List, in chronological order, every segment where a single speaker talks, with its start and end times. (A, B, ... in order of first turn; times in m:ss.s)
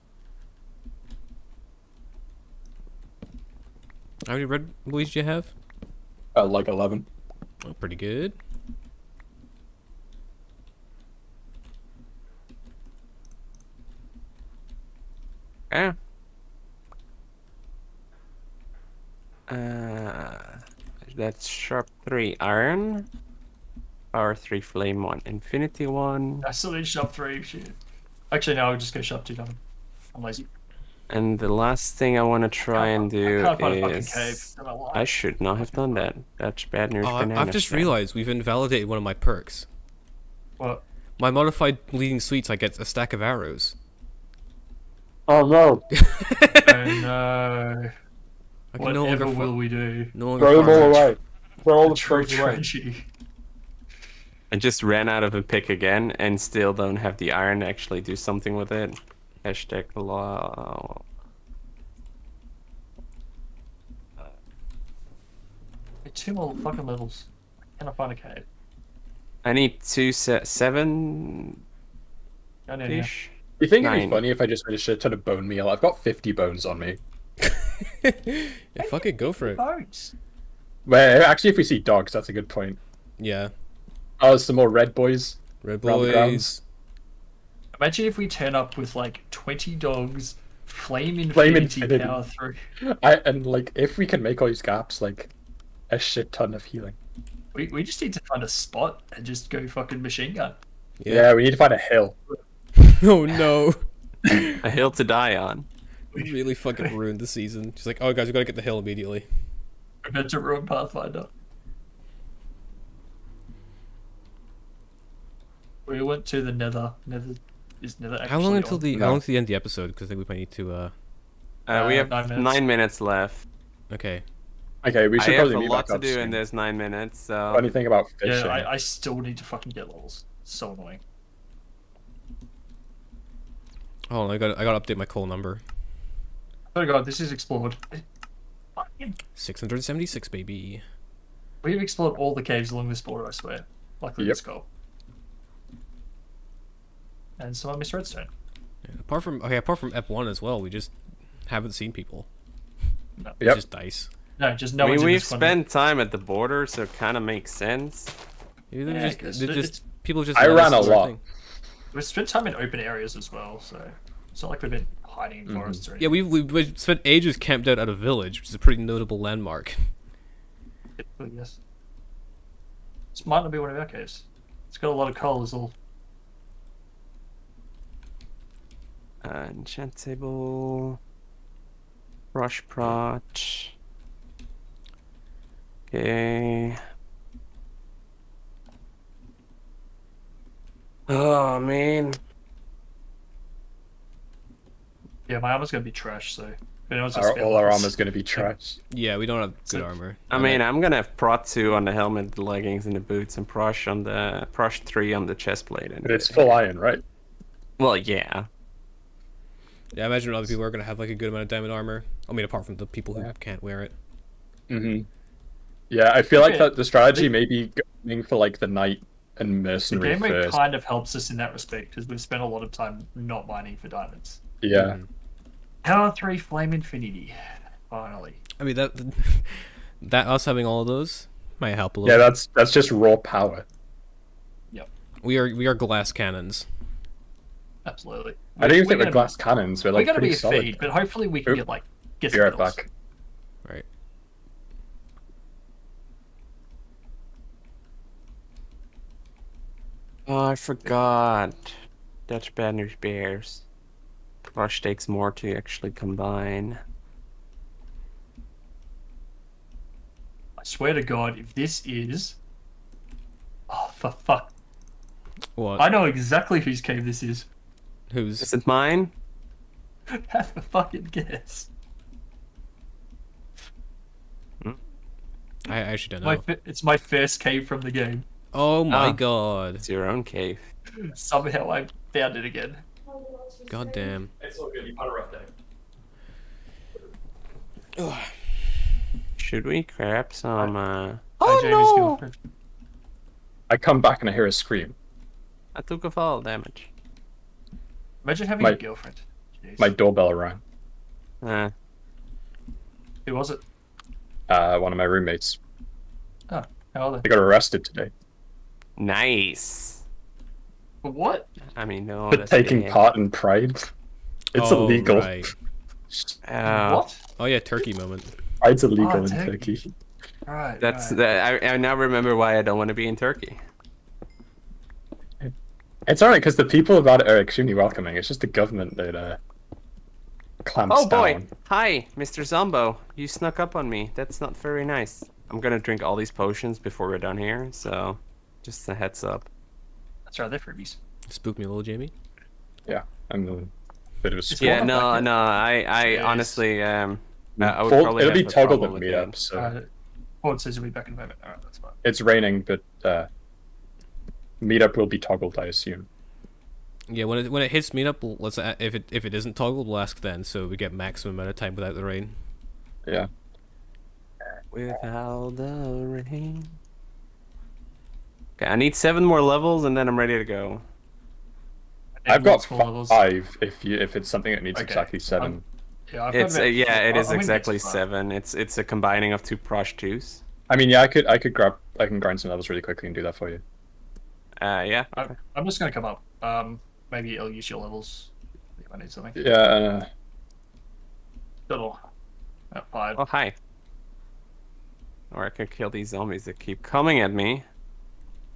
0:04.2-0:05.5 A
0:06.3-0:07.1 B
0:07.6-0:08.4 A
0:15.7-0:16.0 C
0:19.5-0:23.1 C
0:24.1-0:26.4 C
0:26.4-0:27.8 D
0:28.3-0:29.6 D
0:30.1-0:30.5 D
0:31.1-0:37.9 C
0:32.7-0:36.1 D
0:37.0-0:39.6 A
0:41.2-0:43.8 A
0:45.3-0:45.8 B
0:46.0-0:46.8 A
0:46.6-0:47.9 D
0:48.7-0:49.6 A
0:48.8-0:50.1 D
0:50.1-0:51.1 A
0:50.4-0:52.6 B
0:51.8-0:53.0 D
0:54.5-1:01.0 C
1:06.0-1:08.4 D
1:09.4-1:11.6 C
1:12.7-1:13.1 D
1:12.9-1:14.2 C
1:13.6-1:17.0 B
1:18.0-1:19.6 A
1:18.8-1:20.1 D
1:20.8-1:22.8 B
1:23.2-1:23.5 A
1:24.2-1:26.5 B
1:25.6-1:26.6 A
1:27.8-1:32.6 D
1:31.3-1:32.2 B
1:32.8-1:35.3 B
1:35.9-1:37.0 B
1:37.5-1:40.6 D
1:41.0-1:41.3 A
1:41.1-1:42.2 B
1:42.8-1:44.5 A
1:44.6-1:45.6 C
1:46.1-1:49.4 A
1:50.0-1:51.3 D
1:55.8-1:58.8 D
1:58.2-2:00.9 A
1:58.9-1:59.2 B
2:01.7-2:03.4 C
2:01.7-2:02.6 D
2:03.9-2:04.2 A
2:04.8-2:06.4 B
2:05.2-2:07.7 C
2:07.5-2:08.7 B
2:08.2-2:11.0 D
2:14.1-2:15.6 A
2:16.7-2:18.0 D
2:18.8-2:19.2 D
2:19.4-2:20.8 A
2:21.6-2:24.7 D
2:27.4-2:28.3 D
2:28.8-2:30.9 A
2:31.4-2:32.3 A
2:33.4-2:34.1 A
2:34.4-2:35.6 D
2:34.8-2:38.1 C
2:38.7-2:41.2 A
2:38.8-2:39.8 D
2:40.3-2:41.1 B
2:41.9-2:46.2 D
2:45.5-2:45.8 B
2:46.0-2:49.9 A
2:51.0-2:51.6 D
2:53.1-2:55.7 D
2:59.2-3:01.0 C
3:02.3-3:03.7 C
3:05.9-3:06.8 C
3:11.1-3:12.2 C
3:15.3-3:18.5 D
3:17.1-3:18.8 B
3:18.9-3:20.6 A
3:20.3-3:26.6 C
3:26.0-3:27.0 B
3:27.8-3:28.5 C
3:29.9-3:33.9 A
3:34.7-3:35.1 B
3:35.9-3:40.6 B
3:36.3-3:37.3 D
3:39.9-3:44.4 D
3:44.6-3:45.0 B
3:44.7-3:45.1 A
3:45.8-3:48.4 D
3:48.6-3:52.3 A
3:52.0-3:53.6 B
3:55.2-3:56.7 A
3:57.8-3:59.3 D
3:58.6-4:00.8 B
3:59.9-4:02.8 D
4:02.3-4:02.9 B
4:10.3-4:11.7 C
4:12.3-4:13.6 C
4:14.5-4:16.8 C
4:20.6-4:22.4 D
4:23.7-4:24.5 D
4:25.6-4:25.9 A
4:25.8-4:27.5 D
4:28.1-4:28.5 A
4:28.4-4:29.1 C
4:30.1-4:31.7 D
4:35.6-4:36.4 A
4:36.2-4:38.2 D
4:38.5-4:39.8 A
4:38.9-4:39.2 C
4:39.8-4:40.6 C
4:40.9-4:42.8 D
4:43.7-4:44.3 A
4:44.4-4:45.5 B
4:48.0-4:48.7 A
4:49.4-4:52.2 C
4:51.4-4:52.4 D
4:53.7-4:54.9 B
4:55.7-4:56.9 C
4:58.2-4:59.9 D
4:59.8-5:00.6 B
5:01.4-5:01.7 C
5:03.2-5:03.6 D
5:04.5-5:05.6 B
5:06.5-5:07.2 D
5:07.2-5:08.1 B
5:09.0-5:10.0 C
5:11.0-5:11.5 D
5:11.7-5:13.1 C
5:12.3-5:13.9 B
5:14.5-5:15.5 B
5:14.5-5:15.5 A
5:16.4-5:17.0 C
5:16.6-5:17.2 D
5:17.4-5:18.4 A
5:18.6-5:19.9 B
5:19.0-5:19.8 D
5:20.4-5:21.2 D
5:20.8-5:23.6 C
5:26.0-5:29.4 B
5:30.6-5:31.5 B
5:30.9-5:39.5 C
5:40.3-5:41.0 D
5:41.3-5:42.1 A
5:42.8-5:43.7 B
5:44.2-5:44.9 B
5:44.5-5:46.6 D
5:44.6-5:49.4 C
5:47.6-5:49.7 B
5:49.5-5:49.9 D
5:50.4-5:52.0 D
5:52.0-5:53.3 B
5:54.6-5:56.1 B
5:57.1-6:02.4 A
6:04.7-6:06.7 C
6:08.6-6:10.8 C
6:12.2-6:13.2 D
6:12.3-6:15.6 B
6:14.7-6:18.0 D
6:16.3-6:20.4 C
6:20.7-6:23.6 B
6:24.6-6:25.3 C
6:25.2-6:29.4 D
6:29.4-6:30.1 B
6:31.7-6:32.0 D
6:32.7-6:33.2 D
6:33.1-6:33.5 C
6:35.3-6:37.6 C